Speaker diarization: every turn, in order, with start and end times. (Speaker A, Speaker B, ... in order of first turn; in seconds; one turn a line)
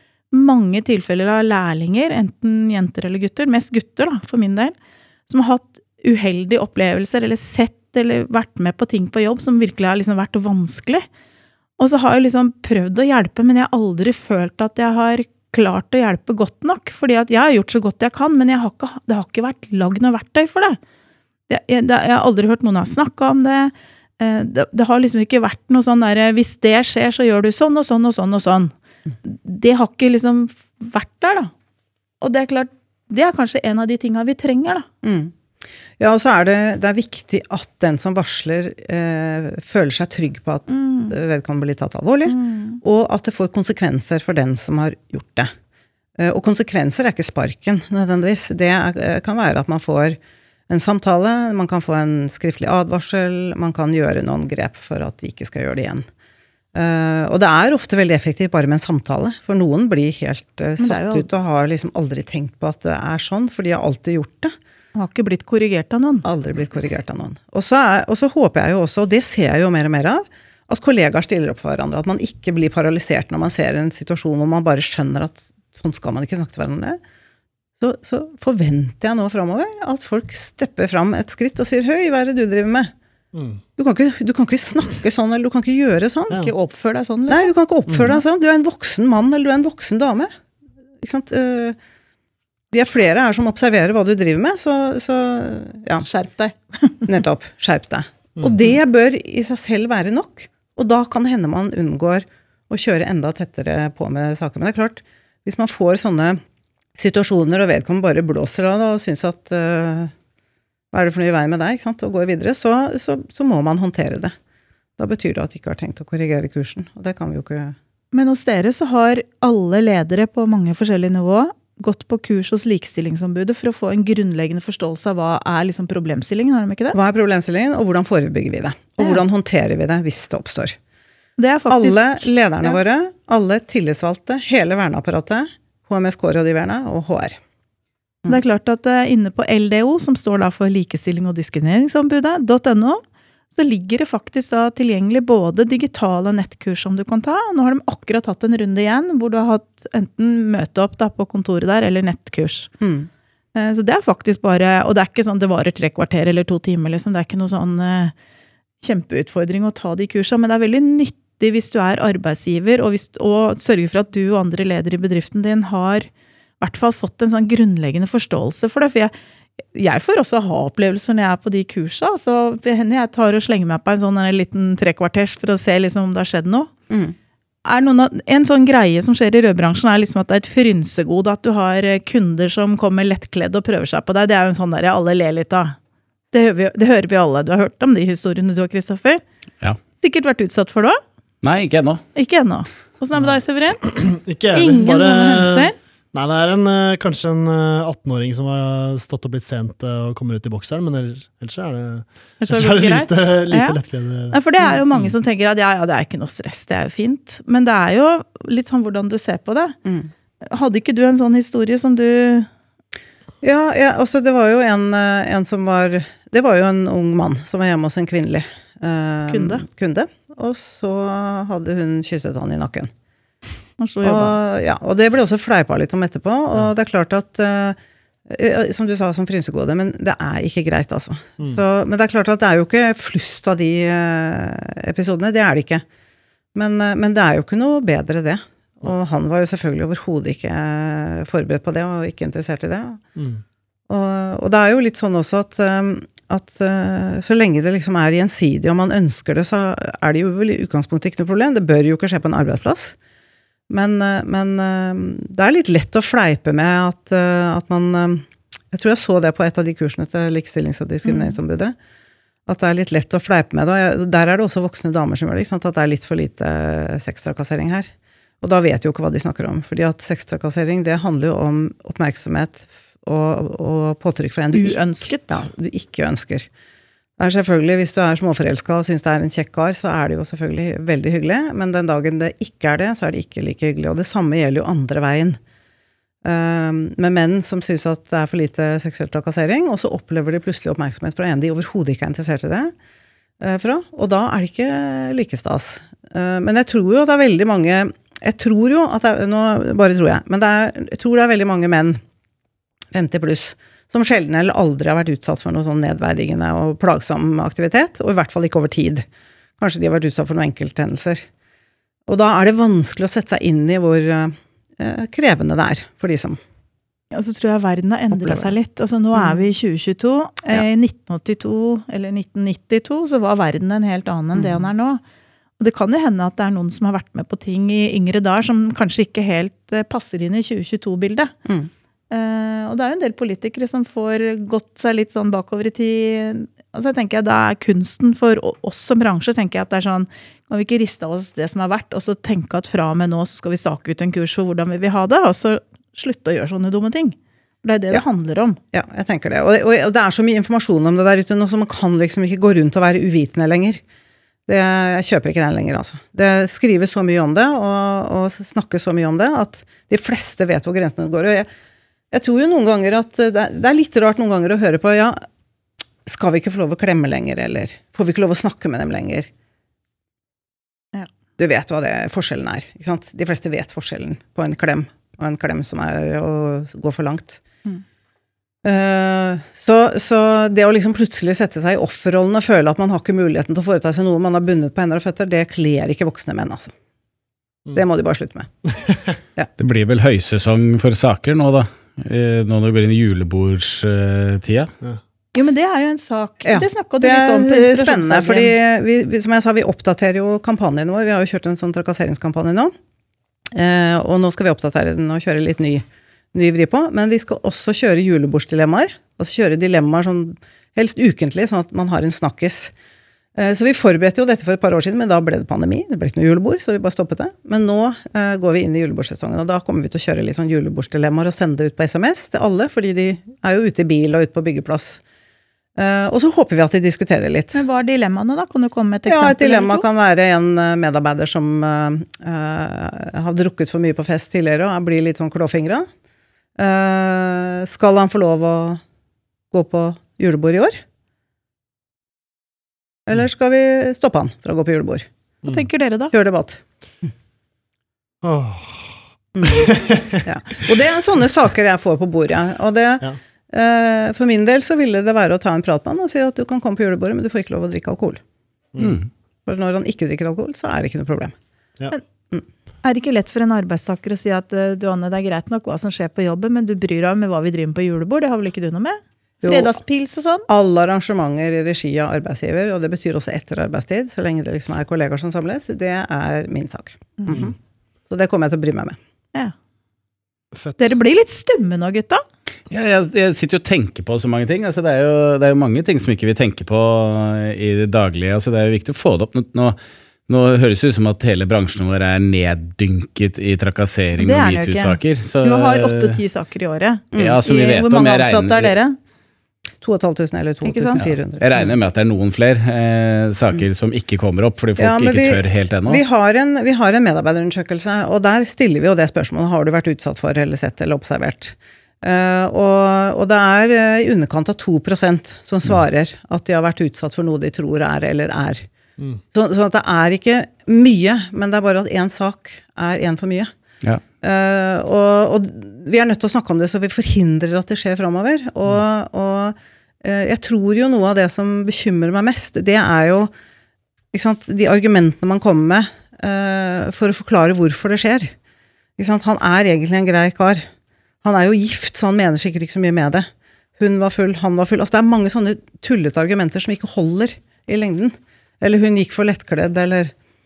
Speaker A: 0.3-4.7
Speaker A: 5.3-11.1
Speaker A: 11.8-20.8
Speaker A: 21.5-31.5
Speaker A: 32.2-34.9
Speaker B: 35.0-35.3
Speaker B: 36.0-45.5
Speaker A: 40.7-41.1
Speaker A: 42.2-42.8
Speaker B: 46.2-50.2
Speaker B: 50.7-56.0
Speaker B: 56.7-64.5
Speaker A: 60.8-61.3
Speaker A: 64.9-66.2
Speaker B: 66.2-77.0
Speaker B: 77.8-82.9
Speaker C: 83.3-83.6
Speaker B: 83.8-86.4
Speaker A: 86.3-87.5
Speaker B: 87.3-90.3
Speaker B: 91.0-91.8
Speaker B: 92.7-96.0
Speaker A: 96.0-97.0
Speaker B: 97.1-106.4
Speaker B: 107.0-110.1
Speaker B: 110.9-114.3
Speaker B: 115.0-117.7
Speaker A: 118.1-127.0
Speaker B: 126.9-130.8
Speaker A: 131.4-132.8
Speaker B: 131.7-137.3
Speaker A: 138.3-152.7
Speaker B: 152.8-153.1
Speaker A: 153.5-158.1
Speaker A: 158.8-166.1
Speaker A: 166.6-169.1
Speaker A: 169.7-176.7
Speaker B: 176.9-177.1
Speaker A: 177.6-185.8
Speaker A: 186.3-189.2
Speaker A: 190.0-191.0
Speaker D: 191.4-192.0
Speaker A: 192.1-193.8
Speaker C: 193.2-204.4
Speaker A: 194.5-195.7
Speaker A: 202.4-203.8
Speaker A: 204.3-209.8
Speaker B: 209.8-210.1
Speaker A: 210.4-212.5
Speaker B: 213.4-222.9
Speaker A: 219.3-219.6
Speaker A: 223.8-224.4
Speaker B: 224.0-227.8
Speaker B: 228.3-235.8
Speaker B: 236.5-243.0
Speaker C: 243.2-243.4
Speaker B: 243.9-252.9
Speaker B: 253.7-261.7
Speaker A: 261.0-261.4
Speaker B: 262.5-267.9
Speaker B: 268.4-276.5
Speaker A: 274.5-275.5
Speaker B: 277.2-285.4
Speaker B: 286.2-292.7
Speaker B: 293.4-302.0
Speaker B: 302.9-309.0
Speaker B: 309.6-311.2
Speaker B: 312.1-316.4
Speaker A: 317.1-325.0
Speaker B: 318.1-318.5
Speaker B: 319.1-319.4
Speaker B: 324.3-324.6
Speaker A: 325.6-331.3
Speaker A: 332.1-348.6
Speaker B: 348.7-353.8
Speaker B: 354.5-361.5
Speaker B: 362.1-365.2
Speaker B: 366.1-369.3
Speaker B: 371.4-377.4
Speaker B: 378.6-386.7
Speaker B: 387.7-388.5
Speaker C: 388.7-389.1
Speaker D: 389.6-394.7
Speaker A: 395.3-398.5
Speaker B: 396.4-402.7
Speaker B: 403.5-412.7
Speaker B: 413.4-425.0
Speaker B: 425.8-427.6
Speaker A: 427.5-429.9
Speaker B: 429.1-435.9
Speaker B: 436.6-438.8
Speaker B: 439.5-440.8
Speaker B: 443.1-445.1
Speaker A: 445.4-446.1
Speaker B: 446.1-447.1
Speaker C: 448.2-450.2
Speaker B: 449.3-458.2
Speaker D: 458.8-459.1
Speaker B: 459.4-461.3
Speaker A: 462.8-470.5
Speaker B: 469.4-469.8
Speaker B: 470.5-477.6
Speaker B: 478.1-478.9
Speaker C: 480.5-480.9
Speaker A: 480.8-482.2
Speaker D: 482.7-496.2
Speaker A: 494.2-499.0
Speaker B: 497.1-497.4
Speaker D: 497.1-498.7
Speaker B: 499.8-501.8
Speaker A: 500.6-501.0
Speaker D: 501.0-506.0
Speaker B: 504.8-518.6
Speaker B: 519.3-523.5
Speaker B: 524.2-533.3
Speaker B: 534.1-538.3
Speaker B: 539.0-540.6
Speaker B: 541.2-550.1